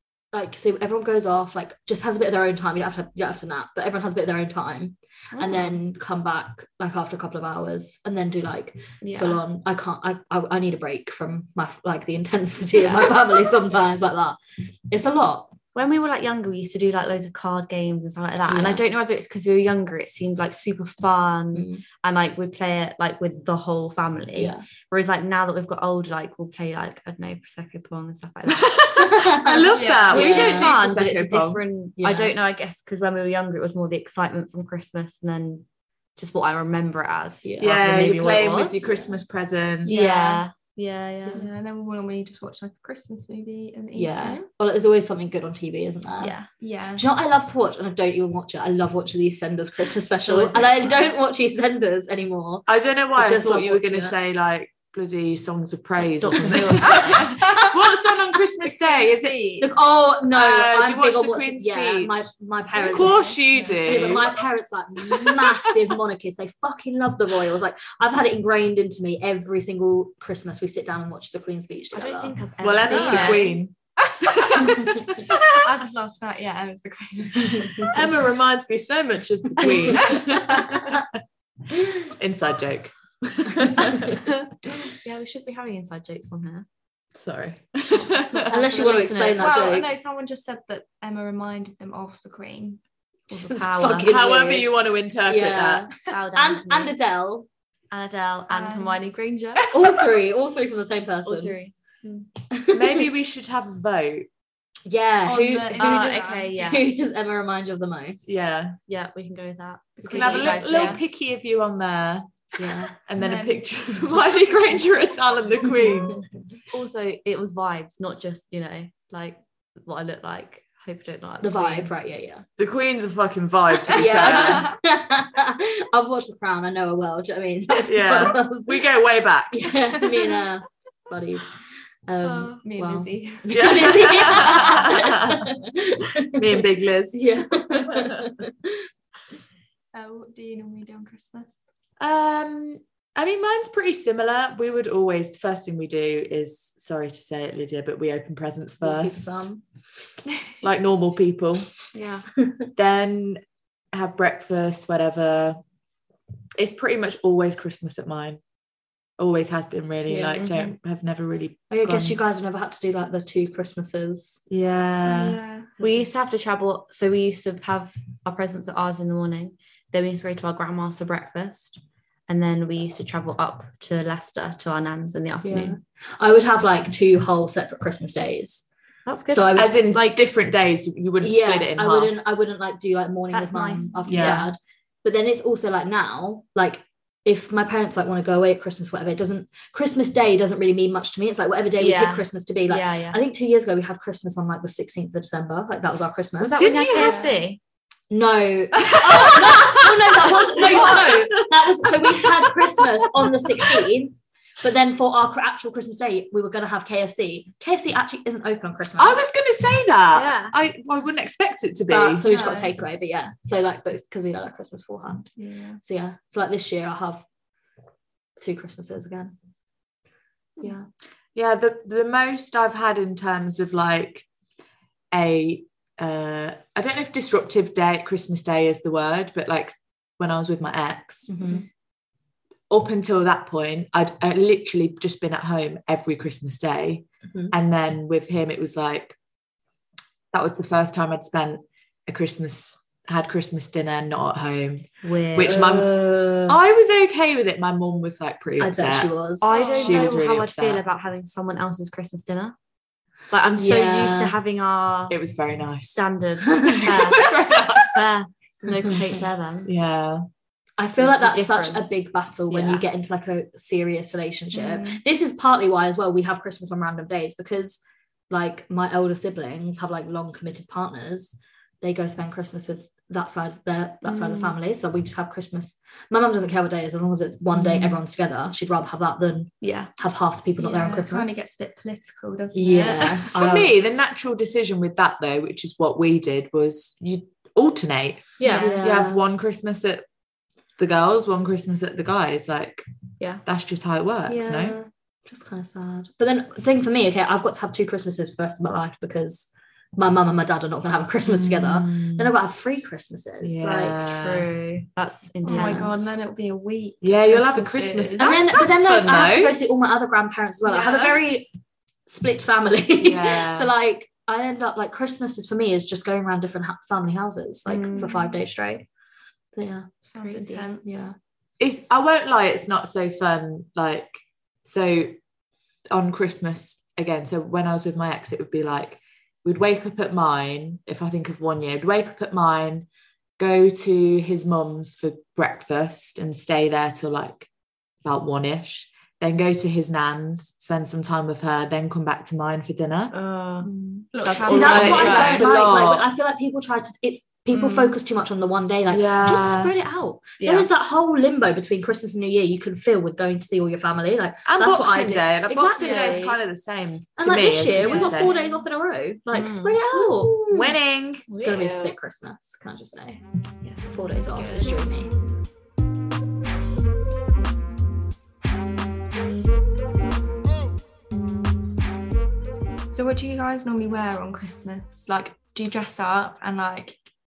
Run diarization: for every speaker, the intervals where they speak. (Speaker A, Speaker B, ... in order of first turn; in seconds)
Speaker A: 0.3-15.6, 18.5-18.8, 21.5-21.8, 24.4-24.6, 28.9-30.8, 32.0-32.3, 37.4-37.8, 44.0-46.4, 47.0-54.1, 57.2-57.5, 59.6-63.3, 63.8-73.4, 74.7-75.1, 88.5-89.9, 93.3-94.7, 95.2-97.5, 99.7-101.6, 102.5-103.0, 104.9-108.4, 112.6-112.9, 121.4-122.5, 123.9-128.8, 129.5-131.6, 132.1-138.7, 148.8-149.6, 160.1-160.5, 161.7-164.4, 175.4-178.7, 179.3-179.9, 181.2-196.7, 198.1-209.2, 211.9-215.3, 215.8-217.2, 218.4-219.3, 220.6-220.9, 231.3-231.7, 237.3-237.5, 245.4-246.6, 248.6-249.6, 253.6-254.4, 256.4-256.9, 260.8-281.4, 282.5-283.7, 288.4-289.2, 294.3-304.0, 305.4-305.9, 308.2-311.5, 312.1-318.9, 319.5-321.2, 343.8-356.4, 357.2-360.5, 361.4-363.2, 363.9-365.1
Speaker B: 5.3-5.8, 9.0-9.4, 12.8-13.2, 15.8-28.9, 30.1-35.6, 36.2-38.9, 39.9-41.5, 46.2-46.5, 50.3-50.9, 56.2-57.4, 71.9-73.6, 84.4-86.7, 87.9-89.8, 93.3-94.2, 96.0-97.0, 97.9-99.7, 101.2-102.3, 105.8-106.9, 108.9-111.0, 116.7-121.9, 132.2-132.5, 151.9-152.3, 160.4-160.7, 165.8-175.8, 179.1-179.8, 183.3-184.5, 191.8-193.2, 196.4-197.6, 210.1-210.5, 245.0-245.7, 249.4-252.6, 253.3-255.2, 255.9-259.7, 261.0-261.9, 262.5-262.8, 274.1-274.5, 279.6-279.9, 288.4-288.8, 304.0-306.2, 317.7-318.3, 320.2-320.7, 343.1-345.5, 347.5-347.9, 350.4-350.7, 359.3-360.6, 361.3-361.9, 363.6-365.1
Speaker C: 28.5-31.6, 37.6-40.1, 52.7-59.7, 60.3-62.3, 62.9-64.4, 72.6-73.8, 74.3-75.5, 77.8-81.1, 82.0-84.3, 87.1-88.7, 94.0-95.9, 102.7-104.3, 108.3-108.8, 110.1-112.3, 113.0-116.2, 122.6-124.7, 127.8-129.7, 133.5-135.5, 136.2-138.3, 142.0-149.5, 150.6-151.7, 152.8-153.4, 153.9-155.6, 156.6-158.4, 159.2-162.2, 164.5-165.4, 179.6-182.2, 184.1-184.5, 196.6-197.2, 199.4-199.7, 200.5-201.4, 209.0-212.3, 221.3-224.3, 225.1-231.5, 232.7-239.2, 240.3-245.9, 246.5-249.1, 249.8-250.8, 255.1-256.1, 256.8-258.1, 259.7-260.2, 283.2-290.1, 290.8-292.9, 293.4-294.8, 301.2-302.3, 303.4-304.5, 307.0-309.6, 313.0-313.7, 321.6-325.1, 325.9-332.9, 333.4-337.5, 338.0-343.1, 344.5-346.1, 348.9-349.7, 354.4-358.3, 360.5-361.3
Speaker D: 29.7-30.7, 39.9-40.4, 41.3-44.4, 46.6-47.1, 56.8-57.5, 58.6-59.8, 62.8-64.0, 72.9-73.5, 74.5-74.8, 75.5-78.1, 79.6-80.6, 89.4-92.8, 98.5-99.0, 105.2-106.6, 110.0-111.0, 113.2-114.1, 132.6-134.6, 139.9-141.6, 165.1-165.7, 196.9-197.4, 212.3-212.7, 215.4-215.8, 249.5-250.2, 280.6-283.3, 288.4-288.8, 305.4-308.4, 310.7-311.2, 320.1-321.1, 344.2-345.5, 355.8-356.1, 357.8-358.6, 372.9-377.0